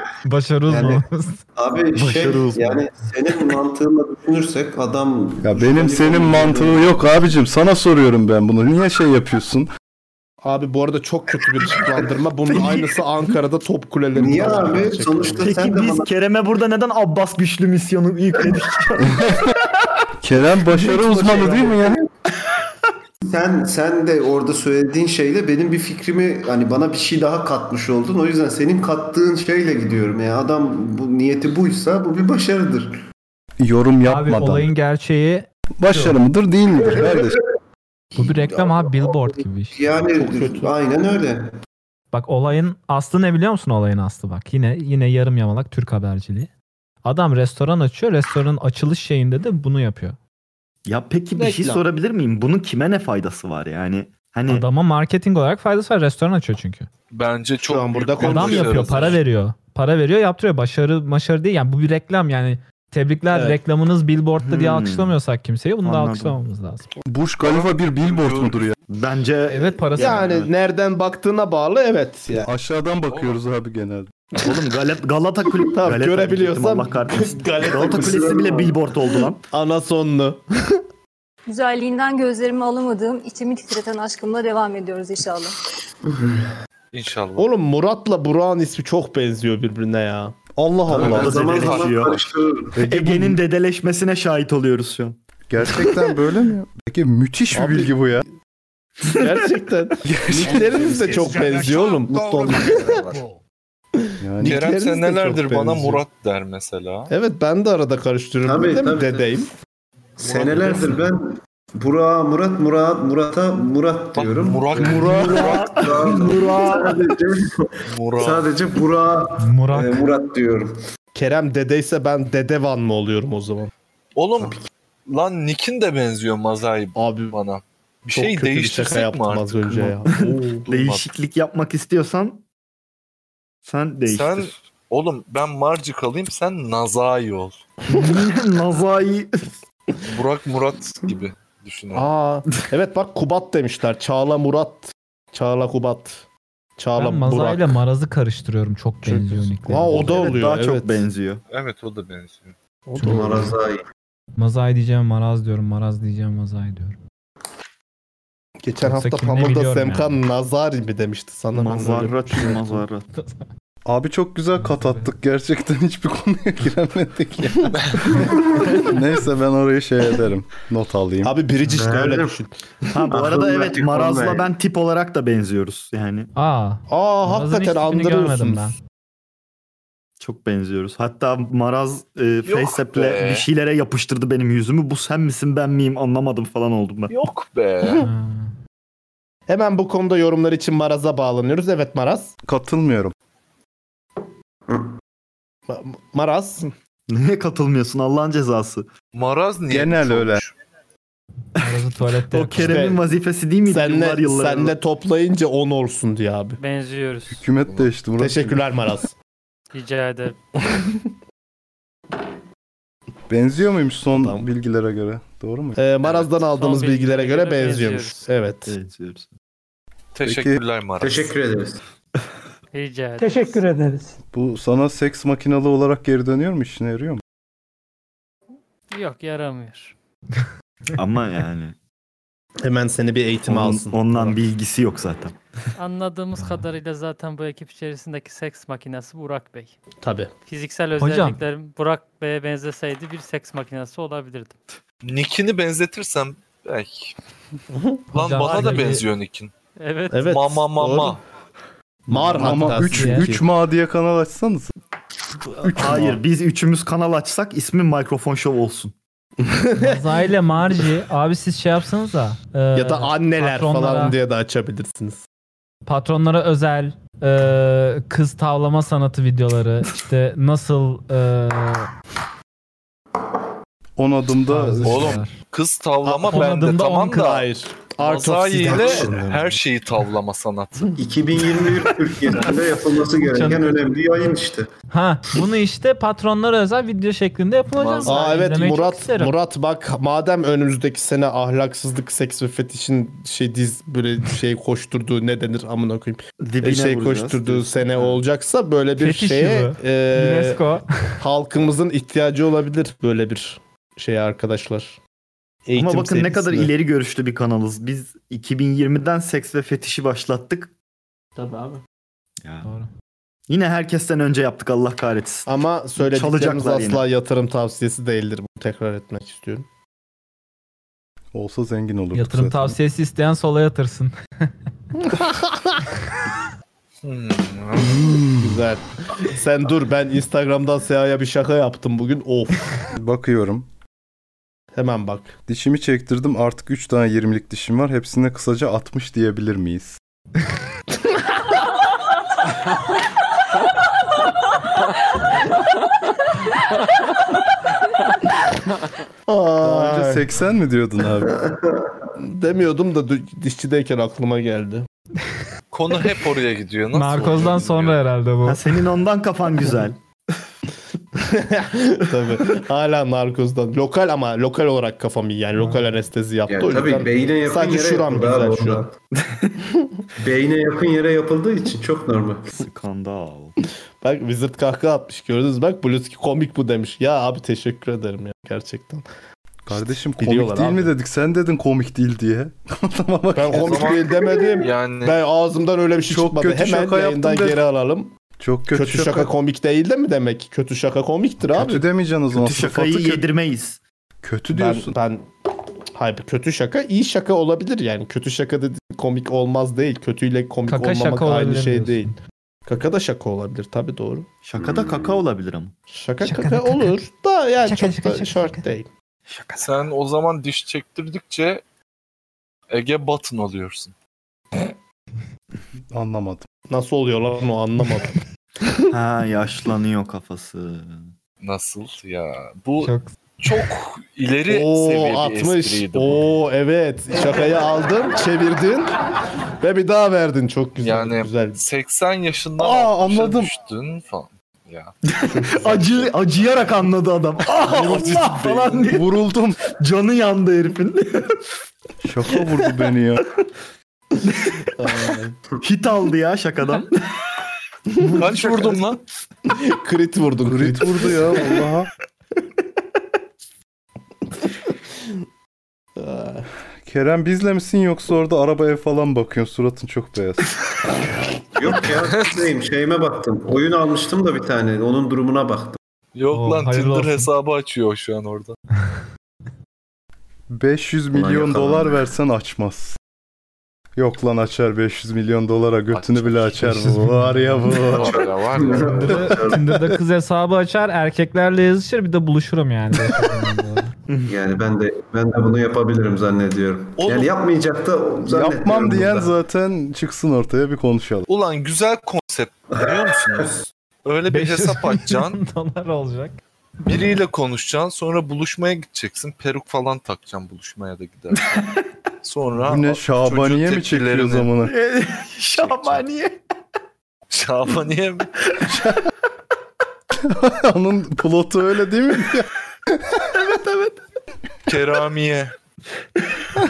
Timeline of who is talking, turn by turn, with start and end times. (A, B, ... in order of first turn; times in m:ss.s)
0:00.2-0:01.4 A
0:00.7-0:01.0 B
0:01.6-0:07.1 B
0:01.9-0:02.8 C
0:05.4-0:09.7 D
0:10.4-0:15.5 E
0:12.5-0:12.8 C
0:14.1-0:16.1 B
0:15.4-0:19.5 C
0:19.1-0:19.5 D
0:20.2-0:22.0 D
0:20.9-0:21.7 C
0:23.2-0:32.9 B
0:33.6-0:34.7 D
0:34.0-0:36.2 A
0:35.8-0:37.4 D
0:38.1-0:41.5 B
0:38.1-0:39.8 A
0:40.1-0:40.7 E
0:42.1-0:46.5 A
0:47.0-0:50.2 A
0:50.8-0:54.6 C
0:51.4-0:51.8 E
0:54.5-0:56.9 A
0:57.1-0:59.2 F
0:57.6-0:59.2 E
0:58.2-1:06.9 A
1:03.3-1:03.6 E
1:04.4-1:05.2 C
1:05.8-1:06.4 C
1:07.1-1:08.7 D
1:07.4-1:08.7 F
1:08.9-1:10.5 C
1:09.5-1:10.4 A
1:10.0-1:12.5 E
1:12.4-1:14.1 D
1:13.1-1:13.4 F
1:14.4-1:19.4 C
1:15.7-1:18.2 E
1:17.4-1:18.8 B
1:19.5-1:20.6 E
1:21.5-1:25.6 G
1:26.0-1:26.5 B
1:26.9-1:27.5 F
1:27.4-1:30.4 E
1:30.5-1:31.6 D
1:30.9-1:32.8 B
1:30.9-1:32.2 F
1:31.0-1:32.2 C
1:32.7-1:33.4 D
1:32.8-1:35.2 C
1:35.5-1:38.2 D
1:37.5-1:38.3 E
1:39.0-1:43.0 E
1:40.0-1:41.2 D
1:40.4-1:43.4 H
1:44.0-1:46.0 E
1:44.2-1:44.8 D
1:44.4-1:47.1 F
1:47.1-1:49.5 E
1:48.4-1:49.3 B
1:50.2-2:00.7 B
1:50.2-1:51.0 F
1:54.1-1:56.3 F
1:54.9-1:57.0 C
1:57.9-1:58.5 F
1:59.4-2:00.1 A
2:01.1-2:03.7 E
2:04.2-2:10.0 F
2:07.0-2:07.4 E
2:08.1-2:10.6 E
2:10.0-2:12.4 C
2:10.6-2:11.1 F
2:13.6-2:14.5 C
2:14.1-2:17.6 F
2:17.9-2:19.5 C
2:20.1-2:22.1 F
2:21.9-2:26.2 E
2:26.8-2:27.7 E
2:27.0-2:30.3 A
2:29.6-2:31.1 E
2:29.8-2:31.4 C
2:31.5-2:32.5 F
2:32.9-2:33.6 E
2:33.0-2:33.8 B
2:34.4-2:37.0 A
2:38.6-2:42.8 E
2:38.8-2:40.2 A
2:41.5-2:43.1 C
2:43.2-2:43.4 A
2:43.8-2:51.3 D
2:44.6-2:45.1 A
2:48.3-2:48.5 B
2:51.2-2:52.5 E
2:51.7-2:52.4 B
2:52.9-2:56.3 C
2:53.1-2:54.5 B
2:56.3-2:58.7 A
2:56.9-2:58.7 E
3:00.2-3:07.1 C
3:02.4-3:03.5 F
3:07.1-3:08.1 F
3:08.0-3:08.5 A
3:09.5-3:12.3 E
3:12.4-3:13.1 D
3:14.7-3:14.9 B
3:15.7-3:16.7 E
3:17.1-3:18.9 C
3:19.1-3:20.5 F
3:19.7-3:20.4 D
3:21.6-3:22.8 A
3:21.6-3:24.7 C
3:22.6-3:23.1 E
3:23.6-3:26.6 E
3:26.6-3:27.4 I
3:27.3-3:28.6 D
3:28.2-3:29.1 E
3:29.7-3:30.4 I
3:30.7-3:31.0 E
3:33.3-3:35.8 D
3:34.2-3:34.4 E
3:35.8-3:38.7 E
3:36.4-3:38.3 I
3:38.7-3:39.3 C
3:40.1-3:41.3 F
3:40.2-3:40.6 D
3:41.0-3:41.8 B
3:42.7-3:43.6 I
3:43.2-3:44.2 H
3:44.3-3:47.2 D
3:48.9-3:49.9 I
3:51.0-3:51.7 C
3:52.6-3:54.4 E
3:53.4-3:55.3 C
3:55.8-3:59.8 I
3:56.4-3:56.6 A
4:00.0-4:00.3 E
4:00.5-4:04.6 I
4:01.0-4:01.4 A
4:05.0-4:07.1 F
4:07.7-4:08.0 E
4:08.1-4:09.0 A
4:08.1-4:09.5 F
4:09.8-4:10.2 I
4:10.1-4:11.2 E
4:10.1-4:11.2 F
4:12.1-4:13.4 E
4:12.1-4:14.7 D
4:12.3-4:13.3 A
4:15.6-4:16.2 D
4:15.7-4:18.9 C
4:19.4-4:20.0 E
4:19.8-4:24.2 A
4:22.7-4:25.2 E
4:25.8-4:31.9 A
4:34.0-4:35.2 D
4:34.5-4:35.3 A
4:34.8-4:37.5 F
4:36.0-4:36.4 E
4:36.3-4:37.3 A
4:37.1-4:39.5 E
4:38.0-4:40.9 F
4:38.7-4:39.2 B
4:41.0-4:44.7 B
4:43.2-4:43.8 A
4:44.9-4:49.3 A
4:47.8-4:48.3 F
4:48.0-5:00.6 E
4:56.4-4:58.2 C
4:59.0-5:00.8 A
5:01.2-5:05.0 E
5:05.6-5:06.7 E
5:05.7-5:10.7 C
5:11.4-5:11.8 E
5:12.4-5:12.7 C
5:12.6-5:12.9 A
5:13.5-5:15.5 C
5:15.5-5:19.6 E
5:16.0-5:17.0 C
5:21.3-5:22.8 D
5:22.1-5:24.5 A
5:27.0-5:28.1 F
5:27.8-5:28.6 D
5:28.4-5:32.7 E
5:32.9-5:33.7 D
5:34.7-5:35.4 E
5:35.5-5:40.0 D
5:49.3-5:50.3 E
5:49.6-5:51.4 D
5:51.4-5:51.8 B
5:52.2-5:54.9 E
5:55.7-5:58.0 F
5:56.9-5:58.7 A
5:58.4-6:00.0 C
6:01.2-6:08.9 E
6:06.5-6:08.9 B
6:10.2-6:12.5 B
6:12.5-6:13.5 C
6:14.0-6:19.0 E
6:19.6-6:24.0 D
6:19.7-6:20.9 E
6:23.3-6:28.1 E
6:23.5-6:25.2 F
6:26.1-6:27.6 D
6:28.4-6:29.3 D
6:28.7-6:31.8 E
6:31.5-6:33.2 D
6:32.3-6:33.8 C
6:34.2-6:34.9 D
6:34.5-6:35.3 E
6:35.9-6:42.1 E
6:40.7-6:42.1 A
6:42.7-6:44.3 E
6:44.4-6:45.7 C
6:44.6-6:45.2 B
6:45.9-6:48.9 E
6:46.2-6:47.0 A
6:47.6-6:48.6 A
6:49.3-6:49.7 C
6:49.6-6:51.6 F
6:52.7-6:53.9 F
6:55.9-6:56.5 D
6:56.7-6:58.2 E
6:58.9-7:01.1 C
7:01.4-7:06.2 F
7:02.8-7:03.1 A
7:04.5-7:08.9 E
7:09.6-7:11.6 E
7:10.8-7:14.9 F
7:12.6-7:13.5 D
7:15.1-7:19.1 C
7:15.3-7:15.8 E
7:17.6-7:18.9 E
7:18.9-7:19.6 D
7:19.7-7:21.4 C
7:22.0-7:23.2 D
7:24.8-7:25.3 E
7:25.1-7:27.0 C
7:28.0-7:28.5 E
7:28.1-7:29.0 F
7:28.2-7:28.8 C
7:29.5-7:31.4 E
7:30.4-7:31.9 D
7:36.0-7:36.5 E
7:36.8-7:40.5 D
7:41.6-7:45.8 B
7:46.1-7:48.6 F
7:46.3-7:47.3 A
7:50.5-7:53.0 D
7:51.1-7:52.0 B
7:54.0-7:58.2 D
7:55.9-7:56.7 F
7:56.6-7:57.7 A
7:57.7-7:59.3 F
7:58.0-7:59.6 B
7:59.0-8:03.9 A
8:04.1-8:04.4 C
8:04.3-8:09.3 B
8:07.0-8:07.3 F
8:08.3-8:11.3 D
8:11.3-8:15.4 F
8:14.3-8:16.4 A
8:16.8-8:21.6 F
8:22.2-8:24.5 F
8:22.6-8:24.7 D
8:24.6-8:26.4 C
8:25.6-8:26.0 F
8:27.3-8:28.3 F
8:28.7-8:29.0 D
8:30.1-8:32.5 D
8:34.7-8:35.5 F